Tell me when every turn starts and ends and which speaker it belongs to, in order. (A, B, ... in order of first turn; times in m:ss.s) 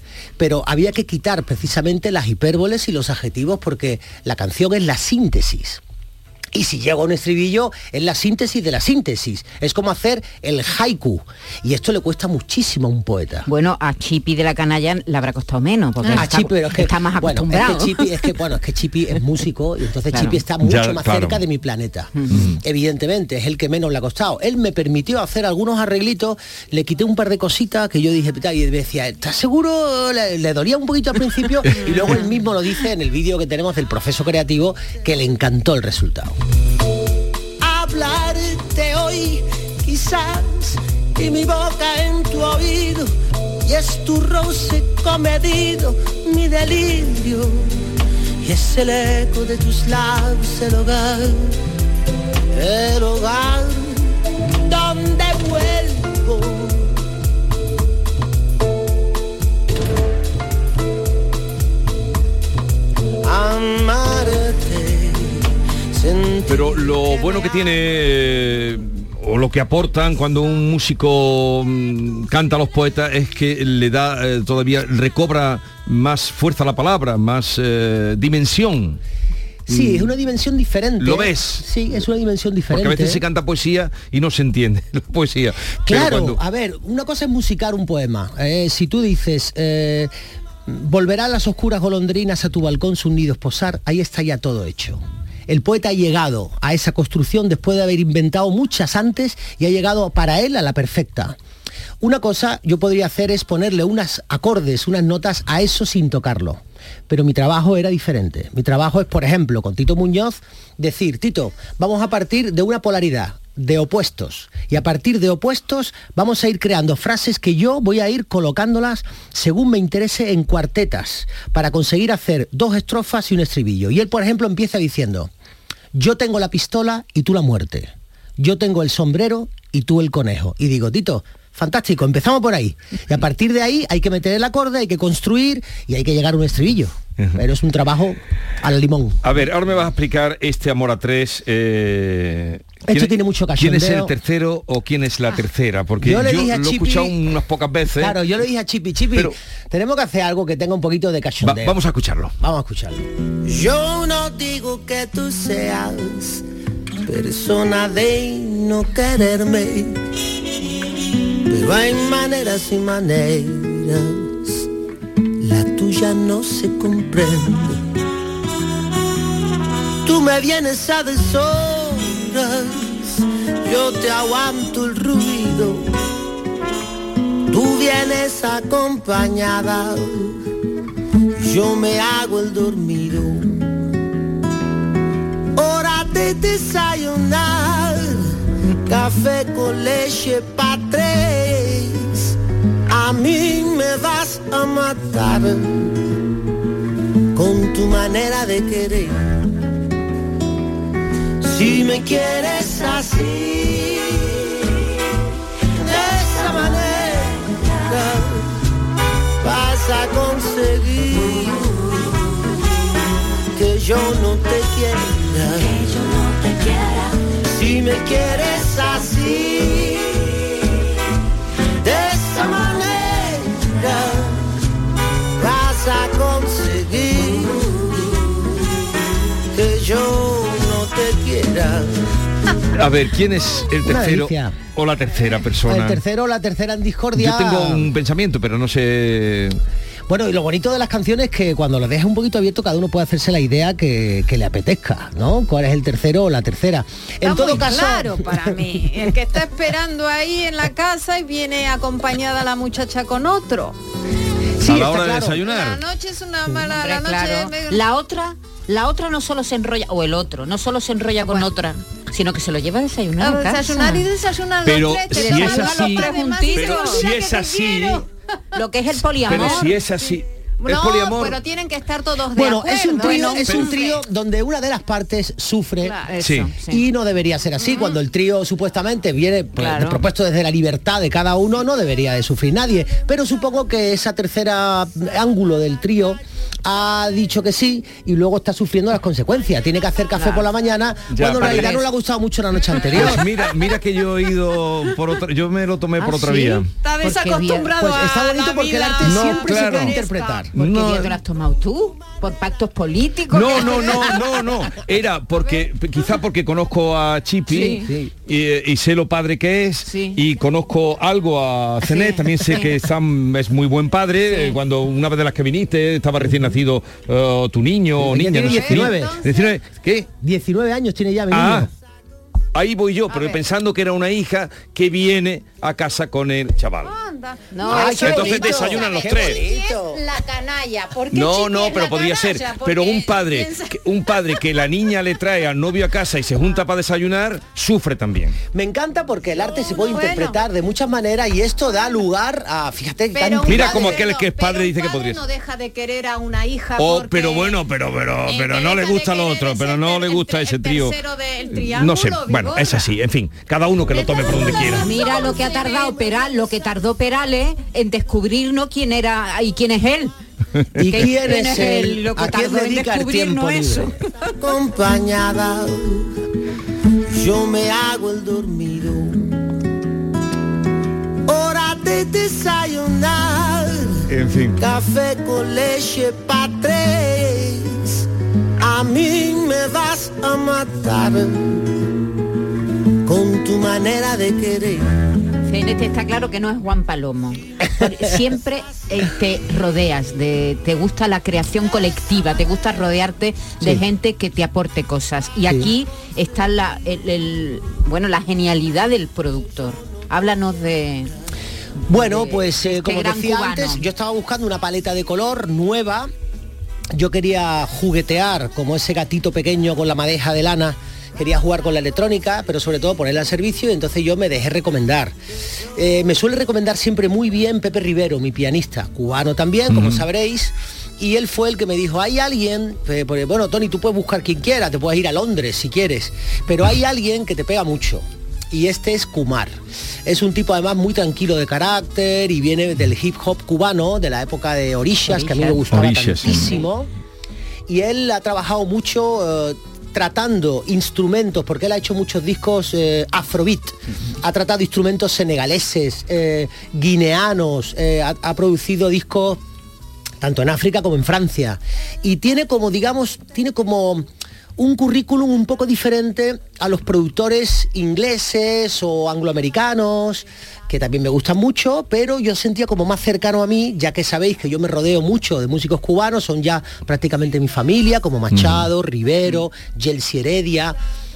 0:00.4-0:05.8 A
0:06.5-0:13.5 A
0:13.5-0:18.3 B
0:16.1-0:36.4 A
0:20.1-0:20.4 B
0:20.6-0:21.4 C
0:22.3-0:22.6 C
0:31.6-0:32.0 C
0:37.6-0:47.9 D
0:48.4-0:51.6 D
0:52.5-0:57.0 D
1:03.2-1:06.9 D
1:06.5-1:19.0 C
1:07.0-1:07.8 E
1:19.7-1:23.2 A
1:19.7-1:20.1 C
1:21.0-1:21.6 C
1:22.7-1:26.4 C
1:25.9-1:30.1 A
1:30.7-1:41.4 A
1:42.0-2:05.3 A
2:05.9-2:19.2 A
2:19.2-2:28.2 C
2:22.9-2:24.1 A
2:26.0-2:27.2 A
2:28.0-2:31.8 A
2:31.4-2:32.3 C
2:32.4-2:33.1 A
2:33.4-2:36.4 D
2:37.0-2:40.0 D
2:41.4-2:44.7 D
2:45.4-2:47.9 D
2:50.0-2:56.0 D
2:57.5-3:00.5 D
3:01.4-3:03.8 D
3:05.6-3:12.4 D
3:12.9-3:16.1 D
3:17.3-3:19.3 D
3:21.4-3:24.8 D
3:25.7-3:28.6 D
3:29.4-3:32.7 D
3:33.5-3:35.9 D
3:37.4-3:40.8 D
3:41.8-3:44.5 D
3:45.4-3:48.7 D
3:49.5-3:52.1 D
3:52.7-3:56.0 C
3:53.8-3:54.6 A
3:55.6-3:57.9 A
3:57.2-3:59.6 C
4:00.1-4:08.4 A
4:07.2-4:13.8 E
4:14.6-4:15.4 A
4:14.6-4:15.8 C
4:15.4-4:17.8 E
4:16.5-4:24.1 B
4:21.2-4:21.5 E
4:23.2-4:28.0 E
4:24.6-4:28.0 C
4:25.1-4:27.0 B
4:28.5-4:29.7 B
4:29.1-4:31.4 C
4:29.3-4:34.0 E
4:32.3-4:36.0 A
4:33.0-4:33.6 B
4:33.4-4:33.7 C
4:35.8-4:36.8 B
4:36.2-4:36.5 C
4:36.7-4:53.3 A
4:37.6-4:38.0 E
4:39.6-4:39.9 E
4:51.1-4:51.8 C
4:51.4-4:51.8 B
4:52.9-4:56.7 C
4:56.0-4:58.0 B
4:56.8-5:00.5 E
4:57.5-5:00.5 A
4:59.0-5:00.0 C
5:00.5-5:01.2 C
5:00.5-5:04.2 B
5:03.3-5:20.1 C
5:03.6-5:04.4 E
5:05.4-5:05.7 E
5:07.5-5:07.9 B
5:07.6-5:08.1 A
5:09.9-5:10.2 B
5:11.8-5:12.6 B
5:14.3-5:14.6 B
5:18.0-5:19.2 A
5:18.4-5:19.5 E
5:20.2-5:21.7 A
5:21.3-5:21.7 C
5:22.6-5:26.9 C
5:23.1-5:23.4 E
5:26.8-5:34.4 E
5:27.5-5:28.5 B
5:27.7-5:30.0 A
5:27.8-5:29.4 C
5:31.1-5:38.4 C
5:38.5-5:44.0 A
5:39.6-5:40.4 E
5:43.1-5:47.6 E
5:43.4-5:45.2 C
5:46.8-5:55.0 C
5:48.2-5:53.0 E
5:53.9-5:56.8 E
5:54.7-6:00.2 B
6:00.8-6:04.0 A
6:00.8-6:03.9 B
6:04.4-6:06.2 D
6:07.1-6:09.5 D
6:11.3-6:14.0 D
6:14.1-6:14.6 C
6:14.6-6:18.1 D
6:18.6-6:21.8 D
6:23.0-6:24.9 D
6:25.4-6:41.1 B
6:41.9-6:43.8 B
6:41.9-6:46.1 A
6:46.9-6:55.2 A
6:55.8-7:09.6 A
6:59.7-7:00.0 C
7:10.1-7:16.9 A
7:15.0-7:16.7 B
7:15.7-7:16.5 C
7:17.7-7:29.4 A
7:30.2-7:50.8 A
7:48.3-7:48.7 C